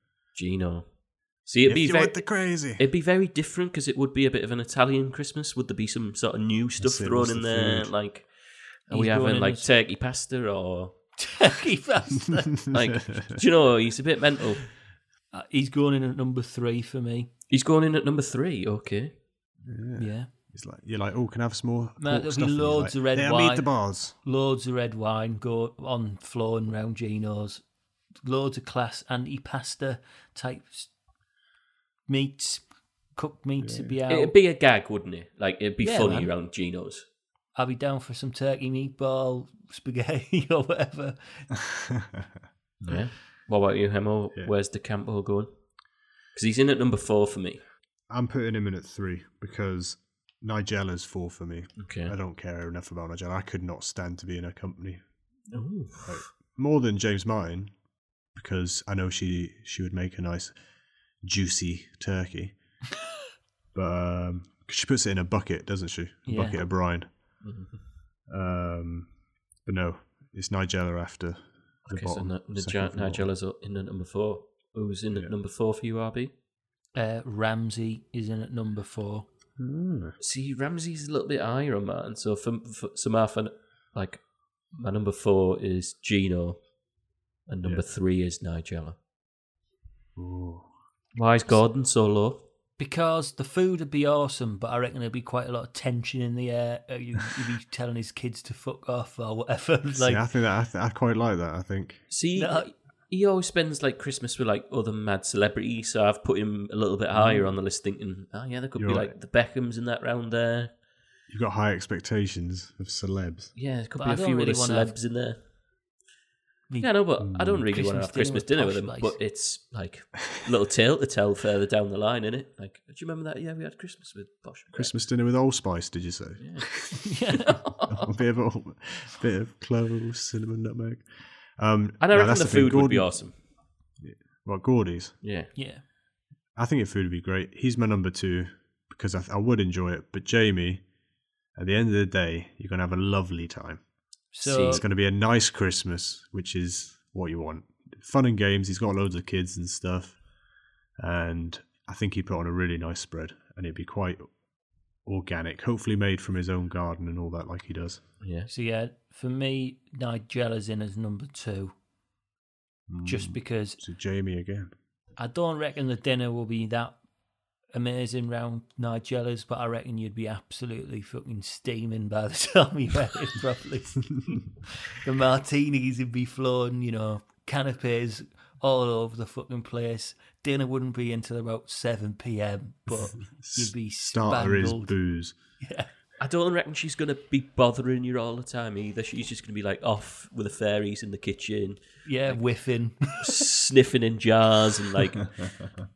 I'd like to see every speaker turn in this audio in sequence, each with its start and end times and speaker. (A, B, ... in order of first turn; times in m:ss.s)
0:00.3-0:11.1 A
0:01.6-0:02.8 B
0:06.8-0:07.9 B
0:08.9-0:09.6 C
0:11.2-0:12.6 C
0:12.7-0:14.7 A
0:12.7-0:13.4 B
0:15.3-0:17.3 C
0:17.5-0:19.1 A
0:19.6-0:24.2 B
0:20.0-0:20.3 C
0:22.0-0:27.6 C
0:28.2-0:30.9 C
0:32.1-0:34.3 C
0:33.6-0:34.0 B
0:34.1-0:37.0 A
0:35.8-0:36.3 C
0:37.5-0:41.5 C
0:41.6-0:42.3 B
0:42.8-0:45.5 A
0:46.3-0:47.6 A
0:48.1-0:55.0 B
0:51.8-0:52.1 A
0:55.5-0:56.3 A
0:56.0-0:57.7 B
0:58.3-1:00.6 B
1:01.2-1:02.6 B
1:03.7-1:07.1 B
1:06.2-1:06.6 C
1:07.4-1:07.8 A
1:08.3-1:09.1 B
1:09.6-1:13.3 B
1:11.9-1:16.3 A
1:16.9-1:19.3 C
1:19.6-1:20.2 B
1:20.2-1:26.6 A
1:27.5-1:29.0 A
1:30.2-1:30.7 B
1:31.1-1:32.4 A
1:32.8-1:40.2 C
1:39.9-1:42.1 B
1:42.1-1:50.7 A
1:42.3-1:42.7 C
1:47.2-1:47.4 B
1:48.8-1:49.1 B
1:51.3-1:53.5 B
1:53.5-1:55.4 A
1:54.0-1:54.9 C
1:56.7-1:57.0 C
1:56.8-2:04.9 A
1:57.2-1:57.7 B
1:57.5-1:59.2 C
2:04.7-2:06.9 B
2:06.4-2:06.9 A
2:07.0-2:07.6 C
2:07.6-2:08.1 A
2:07.9-2:13.3 B
2:12.0-2:13.3 A
2:14.0-2:15.2 B
2:15.2-2:15.5 A
2:15.5-2:15.8 C
2:16.6-2:20.8 B
2:21.5-2:23.8 B
2:24.3-2:24.8 C
2:24.4-2:24.8 A
2:24.7-2:30.2 B
2:31.0-2:34.3 B
2:35.0-2:38.0 B
2:38.2-2:38.5 A
2:38.5-2:41.7 C
2:42.9-2:44.7 B
2:43.0-2:43.8 C
2:45.2-2:47.0 C
2:47.7-3:05.0 C
3:03.4-3:05.4 B
3:05.6-3:05.9 C
3:06.2-3:12.6 A
3:12.0-3:13.4 C
3:13.1-3:15.4 A